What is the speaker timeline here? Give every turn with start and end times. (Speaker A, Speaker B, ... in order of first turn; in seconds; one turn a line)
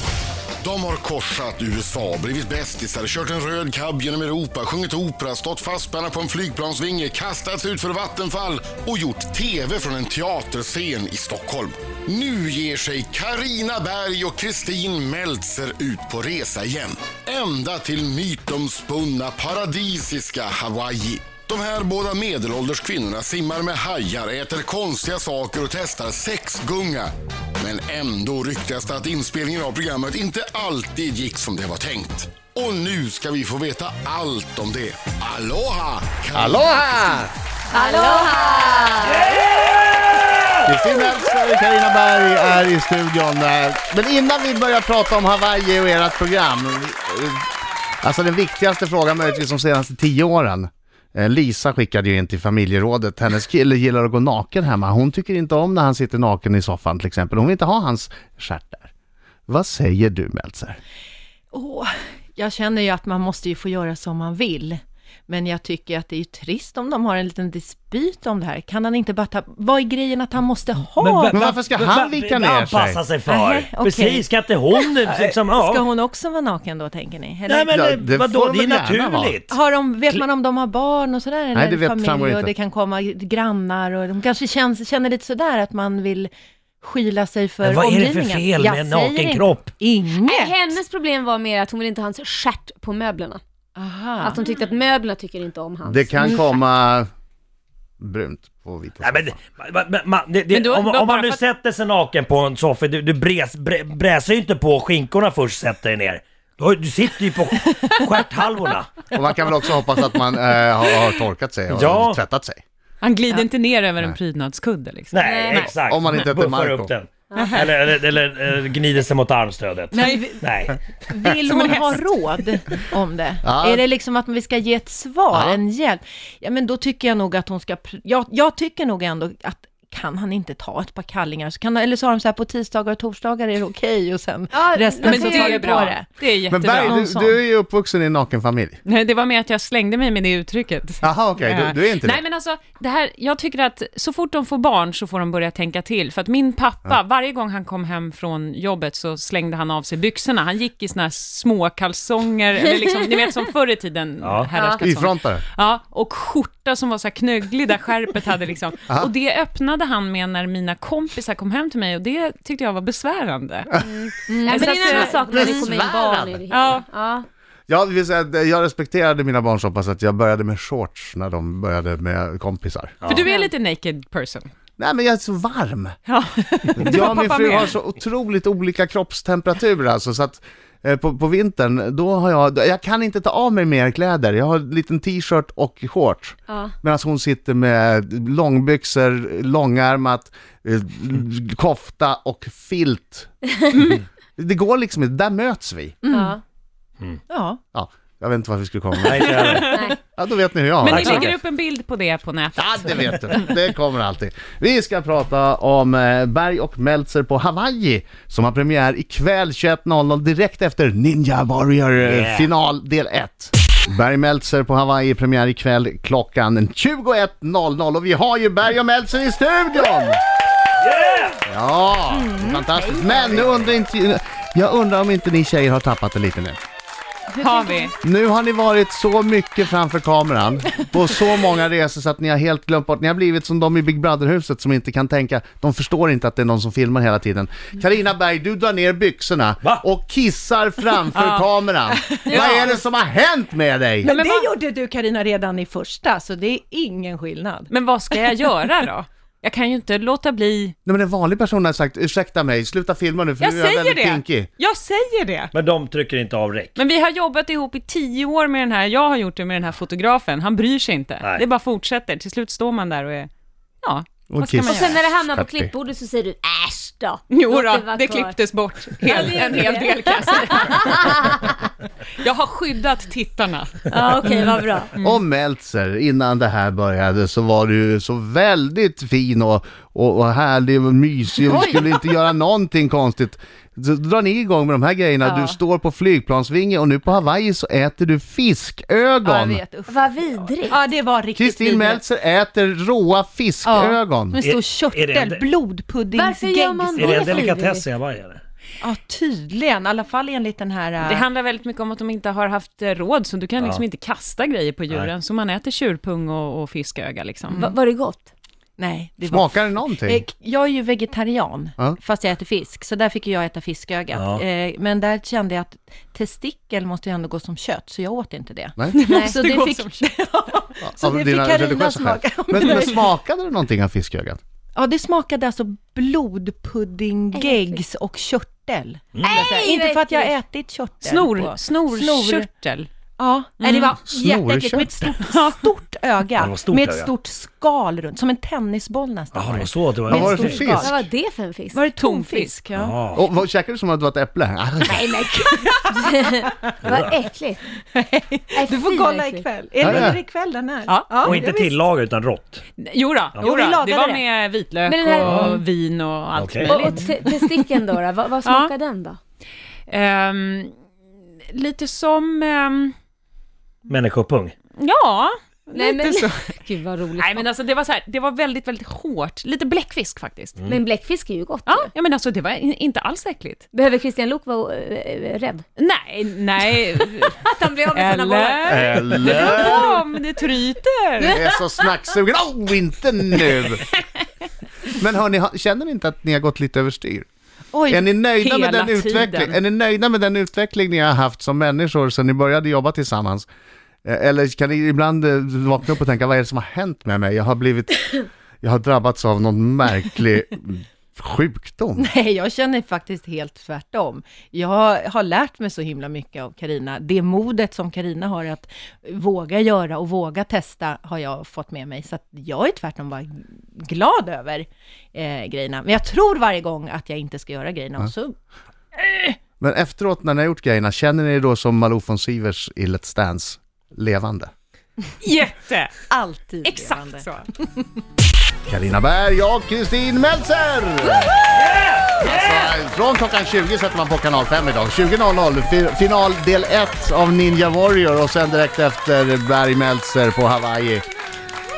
Speaker A: 0.6-36.6
Speaker B: 36.3-37.3
Speaker C: 37.7-39.3
Speaker D: 39.1-40.6
Speaker B: 40.6-58.9
Speaker B: 59.5-60.8
Speaker E: 61.5-71.4
Speaker D: 71.0-75.9
Speaker B: 71.3-73.0
Speaker E: 73.2-78.0
Speaker D: 77.5-79.5
Speaker B: 77.7-79.3
Speaker E: 79.5-86.3
Speaker B: 81.5-82.5
Speaker E: 86.8-90.7
Speaker D: 87.6-89.7
Speaker C: 90.2-93.4
Speaker E: 93.8-94.4
Speaker C: 94.2-96.4
Speaker B: 95.8-97.1
Speaker B: 98.0-99.4
Speaker D: 99.0-109.0
Speaker F: 100.5-101.4
Speaker B: 109.1-112.6
Speaker D: 111.7-112.2
Speaker F: 113.0-115.7
Speaker D: 115.1-120.8
Speaker C: 115.2-115.6
Speaker B: 115.7-116.9
Speaker C: 117.3-117.5
Speaker F: 117.3-117.6
Speaker E: 119.9-136.1
Speaker F: 120.0-120.3
Speaker F: 121.3-122.0
Speaker B: 123.4-123.8
Speaker B: 125.3-125.6
Speaker C: 134.5-135.9
Speaker F: 135.0-137.3
Speaker B: 136.5-138.8
Speaker E: 136.7-137.3
Speaker F: 138.8-163.7
Speaker B: 141.0-142.2
Speaker D: 154.2-154.5
Speaker C: 154.5-154.8
Speaker B: 154.8-155.4
Speaker C: 163.8-167.2
Speaker E: 164.3-165.0
Speaker F: 164.4-165.7
Speaker B: 164.6-166.4
Speaker F: 166.5-166.8
Speaker B: 167.7-173.1
Speaker F: 173.0-174.5
Speaker C: 173.2-173.5
Speaker B: 174.8-175.9
Speaker F: 176.1-177.8
Speaker B: 176.8-193.4
Speaker C: 186.5-186.7
Speaker B: 194.3-195.9
Speaker E: 196.0-196.3
Speaker C: 196.1-196.4
Speaker E: 197.3-197.6
Speaker B: 197.7-199.6
Speaker D: 199.0-199.8
Speaker F: 199.3-199.8
Speaker C: 199.7-199.9
Speaker B: 200.1-201.3
Speaker F: 200.8-203.5
Speaker D: 200.9-201.3
Speaker B: 202.6-220.2
Speaker D: 212.0-212.5
Speaker D: 220.8-221.4
Speaker B: 221.5-226.6
Speaker E: 222.1-223.3
Speaker E: 227.3-227.8
Speaker F: 227.4-227.9
Speaker B: 228.0-244.1
Speaker F: 241.1-242.7
Speaker C: 242.3-242.6
Speaker E: 242.3-242.7
Speaker E: 244.0-248.2
Speaker F: 244.0-244.5
Speaker F: 247.7-250.8
Speaker B: 250.8-254.5
Speaker F: 253.4-255.5
Speaker D: 255.5-256.8
Speaker F: 256.8-263.3
Speaker F: 263.8-264.9
Speaker B: 264.3-265.7
Speaker C: 264.6-268.4
Speaker F: 267.3-271.4
Speaker C: 269.0-271.6
Speaker F: 272.1-275.2
Speaker C: 273.9-274.9
Speaker B: 275.0-289.6
Speaker E: 281.5-281.8
Speaker E: 285.2-285.6
Speaker E: 289.2-292.0
Speaker C: 289.9-290.8
Speaker B: 291.3-294.4
Speaker E: 293.6-297.2
Speaker D: 294.4-295.5
Speaker C: 296.1-297.9
Speaker D: 296.9-298.4
Speaker E: 298.8-301.2
Speaker F: 301.0-307.7
Speaker D: 303.6-303.8
Speaker C: 307.5-308.3
Speaker E: 308.8-323.0
Speaker B: 309.2-310.2
Speaker D: 314.1-314.4
Speaker F: 318.9-320.0
Speaker C: 319.1-319.4
Speaker B: 320.8-324.4
Speaker E: 324.8-332.5
Speaker C: 327.3-327.8
Speaker D: 329.1-329.4
Speaker C: 329.2-330.4
Speaker F: 331.0-332.9
Speaker E: 333.2-341.0
Speaker F: 333.6-334.0
Speaker B: 334.1-335.2
Speaker D: 336.4-337.1
Speaker D: 339.3-340.7
Speaker B: 340.1-340.9
Speaker C: 340.7-341.8
Speaker E: 341.7-343.0
Speaker F: 341.9-342.6
Speaker D: 342.7-343.2
Speaker B: 343.1-345.1
Speaker E: 344.8-346.8
Speaker C: 346.0-347.6
Speaker D: 346.8-347.1
Speaker E: 347.9-351.8
Speaker C: 348.5-349.5
Speaker B: 349.8-350.2
Speaker D: 349.8-350.1
Speaker F: 350.9-351.4
Speaker D: 351.2-352.6
Speaker F: 352.8-357.7
Speaker E: 353.4-354.2
Speaker C: 354.9-355.6
Speaker D: 355.2-355.6
Speaker D: 356.3-356.8
Speaker C: 356.6-359.2
Speaker F: 358.4-358.7
Speaker F: 359.9-360.7
Speaker F: 361.5-362.9
Speaker D: 363.9-364.5
Speaker F: 364.8-366.6
Speaker C: 365.7-367.4
Speaker F: 367.1-370.6
Speaker C: 370.6-371.9
Speaker F: 371.6-373.6
Speaker C: 373.7-375.6
Speaker F: 375.8-381.4
Speaker C: 377.2-379.8
Speaker B: 378.6-380.0
Speaker C: 381.2-381.6
Speaker B: 381.3-383.8
Speaker B: 384.9-387.3
Speaker E: 387.7-388.1
Speaker B: 387.9-393.5
Speaker F: 388.4-389.6
Speaker B: 394.0-402.1
Speaker E: 402.0-418.3
Speaker E: 419.0-419.4
Speaker B: 419.6-424.5
Speaker F: 425.2-426.0
Speaker E: 426.1-427.8
Speaker F: 426.6-427.4
Speaker B: 428.7-431.4
Speaker D: 431.5-432.7
Speaker B: 432.2-441.0